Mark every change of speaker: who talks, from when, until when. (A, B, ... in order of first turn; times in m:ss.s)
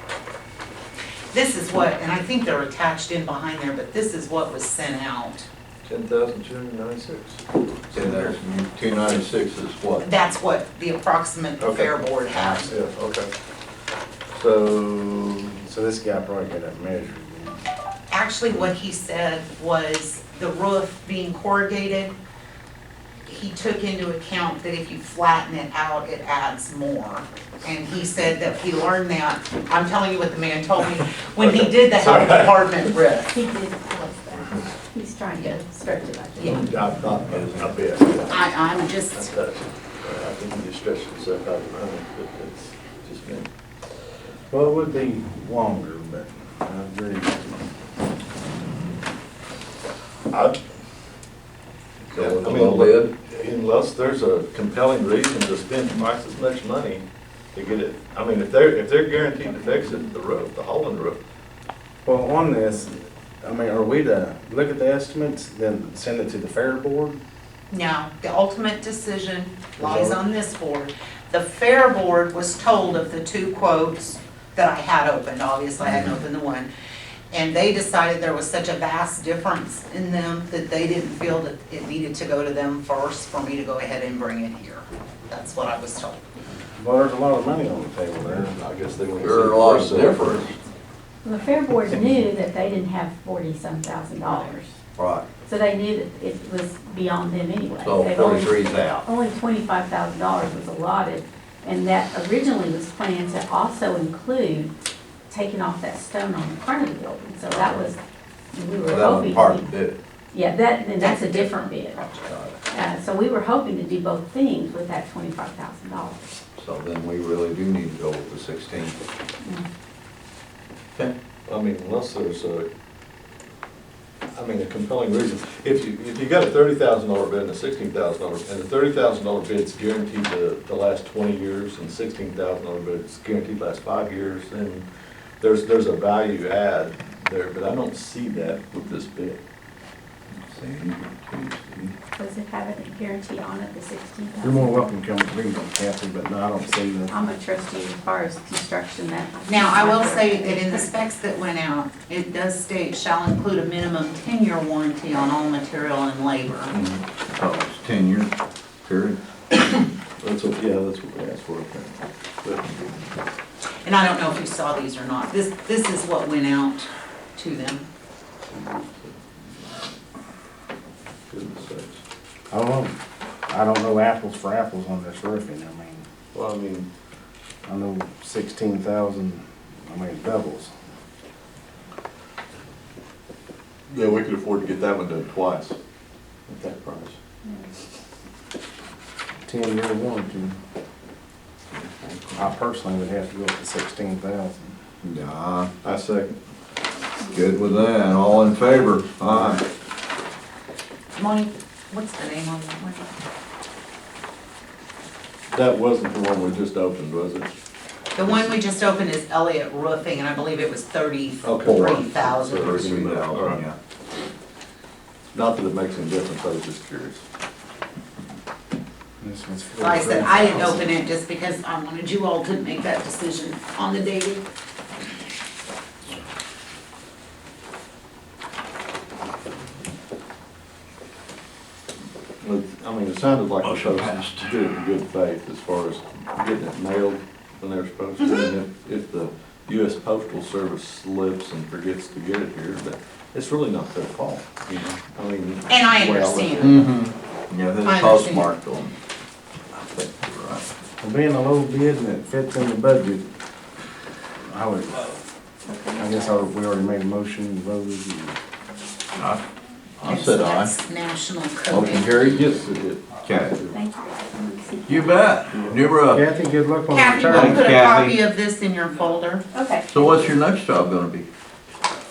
0:01.3-0:05.5 A
0:05.8-0:08.3 B
0:07.9-0:10.1 C
0:10.0-0:12.7 A
0:11.6-0:13.3 B
0:14.3-0:15.6 B
0:15.7-0:17.6 D
0:18.1-0:22.2 A
0:23.3-0:33.3 A
0:31.4-0:32.6 B
0:32.9-0:36.6 E
0:36.4-0:36.6 A
0:36.4-0:38.5 B
0:38.3-0:39.3 A
0:39.1-0:43.5 B
0:44.5-0:47.6 D
0:50.3-0:50.6 B
0:52.1-1:01.2 B
0:52.1-0:53.1 C
1:02.0-1:07.2 D
1:07.7-1:16.7 A
1:09.8-1:10.2 D
1:17.3-1:26.2 A
1:26.8-1:28.6 D
1:28.2-1:30.4 B
1:29.2-1:30.6 C
1:31.2-1:34.8 E
1:35.0-1:35.3 C
1:35.4-1:44.7 E
1:37.8-1:39.0 C
1:45.3-1:48.0 E
1:47.5-1:47.8 C
1:48.5-1:49.7 E
1:48.8-1:50.0 C
1:50.3-1:52.0 E
1:51.0-1:52.3 A
1:52.3-1:52.5 C
1:52.7-1:56.4 E
1:56.6-1:59.0 C
2:01.5-2:02.7 B
2:04.3-2:14.8 B
2:15.4-2:19.4 B
2:20.4-2:21.9 B
2:22.2-2:24.9 E
2:24.4-2:27.1 D
2:27.1-2:30.9 E
2:29.5-2:36.7 A
2:36.7-2:37.0 B
2:37.3-2:38.3 C
2:38.8-2:39.2 C
2:40.2-2:42.9 B
2:43.8-2:47.9 A
2:48.4-2:50.0 B
2:51.3-2:52.0 B
2:52.5-2:53.0 D
2:53.5-2:56.0 D
2:56.3-2:56.9 B
2:57.7-3:00.7 D
3:03.9-3:05.8 B
3:06.5-3:07.2 B
3:09.5-3:10.6 D
3:11.7-3:12.5 B
3:12.4-3:14.8 D
3:15.0-3:15.7 C
3:15.8-3:16.4 B
3:17.2-3:19.6 C
3:19.3-3:19.6 B
3:21.2-3:23.1 A
3:25.5-3:27.5 B
3:28.2-3:32.9 A
3:28.2-3:28.5 B
3:31.4-3:33.6 B
3:31.6-3:32.0 C
3:32.6-3:33.8 C
3:35.3-3:37.2 B
3:39.2-3:40.9 D
3:39.8-3:44.4 A
3:52.4-4:06.8 B
3:53.6-3:54.5 C
4:05.7-4:06.8 A
4:06.6-4:08.9 C
4:07.8-4:08.5 A
4:09.9-4:10.7 C
4:11.0-4:13.3 D
4:14.4-4:15.2 D
4:15.7-4:16.4 E
4:16.0-4:18.4 D
4:19.2-4:19.4 C
4:20.0-4:20.7 C
4:20.0-4:22.1 A
4:21.7-4:22.1 C
4:21.7-4:23.7 B
4:23.2-4:23.6 C
4:23.7-4:25.2 E
4:24.9-4:26.2 C
4:25.5-4:25.8 B
4:26.1-4:27.6 D
4:26.9-4:29.5 A
4:27.2-4:28.2 C
4:29.5-4:30.1 E
4:29.9-4:31.3 C